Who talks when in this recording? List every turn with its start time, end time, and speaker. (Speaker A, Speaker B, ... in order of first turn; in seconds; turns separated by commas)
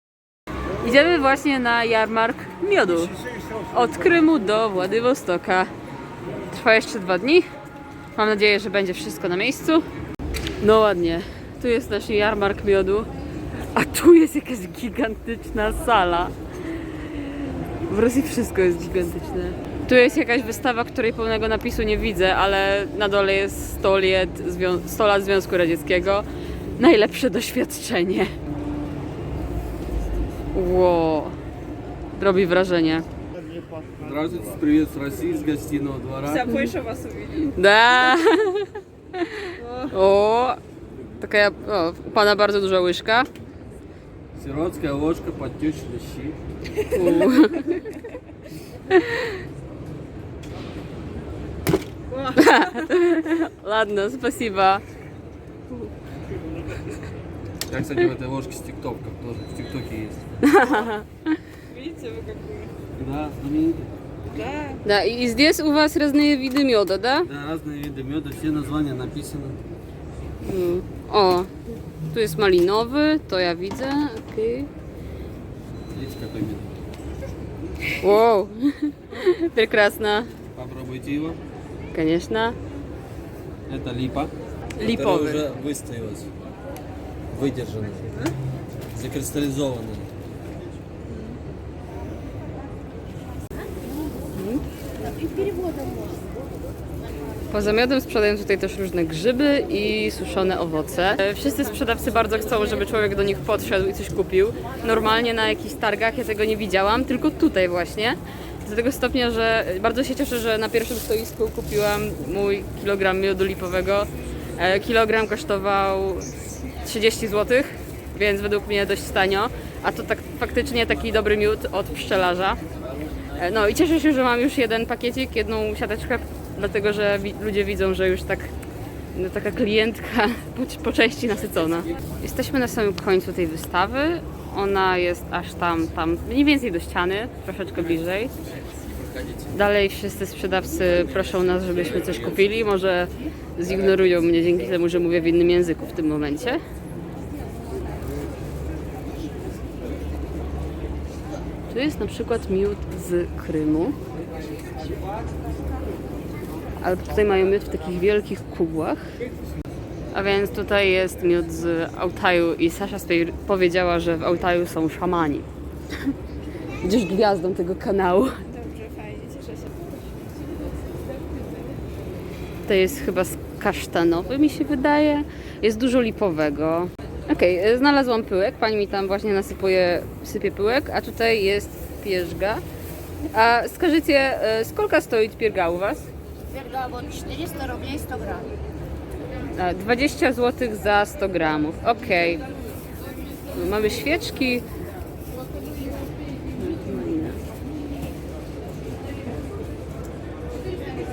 Speaker A: 0.8-3.1, Speaker A: 3.7-5.7, Speaker A: 6.5-7.5, Speaker A: 8.1-9.8, Speaker A: 10.6-13.1, Speaker A: 13.7-16.3, Speaker A: 17.9-26.2, Speaker A: 26.8-28.3, Speaker A: 30.5-31.4, Speaker A: 32.2-33.1, Speaker B: 34.0-36.5, Speaker C: 36.2-37.6, Speaker A: 37.6-40.6, Speaker C: 39.6-40.0, Speaker A: 41.2-43.3, Speaker B: 44.4-46.4, Speaker A: 46.9-48.0, Speaker C: 47.1-47.9, Speaker A: 48.9-49.3, Speaker C: 52.1-52.7, Speaker A: 52.3-54.8, Speaker B: 57.7-60.2, Speaker A: 60.4-61.4, Speaker C: 61.7-62.7, Speaker B: 62.9-63.9, Speaker C: 64.3-64.8, Speaker A: 64.8-67.3, Speaker B: 67.2-69.6, Speaker A: 70.4-71.5, Speaker A: 72.1-74.7, Speaker B: 75.9-76.7, Speaker A: 77.9-80.3, Speaker B: 80.5-81.4, Speaker A: 81.9-82.5, Speaker B: 83.7-86.3, Speaker A: 84.8-85.4, Speaker B: 87.3-88.2, Speaker B: 88.9-90.1, Speaker C: 91.1-91.4, Speaker A: 94.3-94.6, Speaker A: 97.5-122.6, Speaker A: 123.3-128.5, Speaker A: 129.1-138.3, Speaker B: 139.0-139.4, Speaker A: 139.5-146.6, Speaker B: 141.1-142.6, Speaker A: 151.7-153.9, Speaker A: 156.8-159.1, Speaker A: 160.1-165.5, Speaker A: 166.8-168.4, Speaker C: 168.5-169.8, Speaker A: 172.7-182.6, Speaker A: 183.3-186.1, Speaker D: 186.4-188.5, Speaker A: 189.5-192.4, Speaker A: 193.5-194.7, Speaker A: 196.6-197.4